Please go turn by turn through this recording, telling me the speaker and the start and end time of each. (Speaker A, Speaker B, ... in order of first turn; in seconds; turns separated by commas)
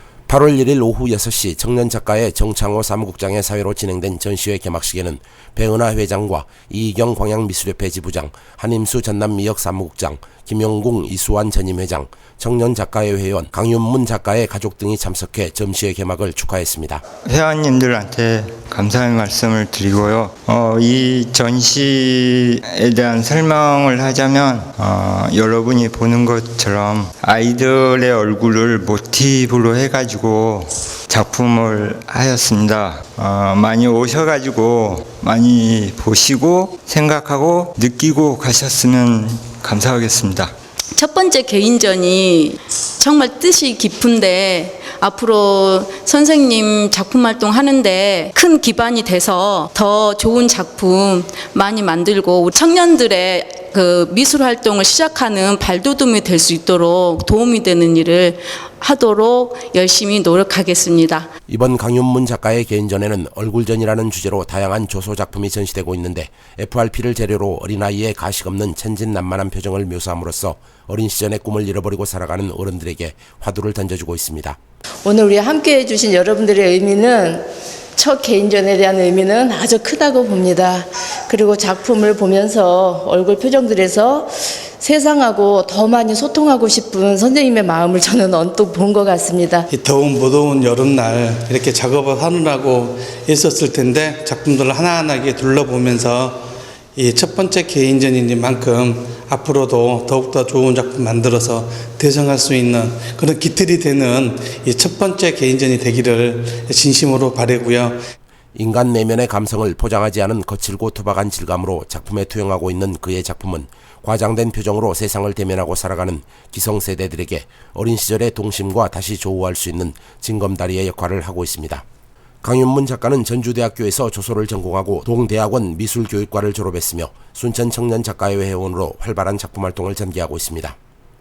Speaker A: 0.3-17.0, Speaker B: 17.2-40.5, Speaker C: 40.9-61.3, Speaker A: 61.5-74.6, Speaker D: 75.0-77.4, Speaker D: 78.0-84.3, Speaker D: 84.8-89.7, Speaker E: 89.7-108.0, Speaker A: 108.5-121.8, Speaker A: 122.4-130.8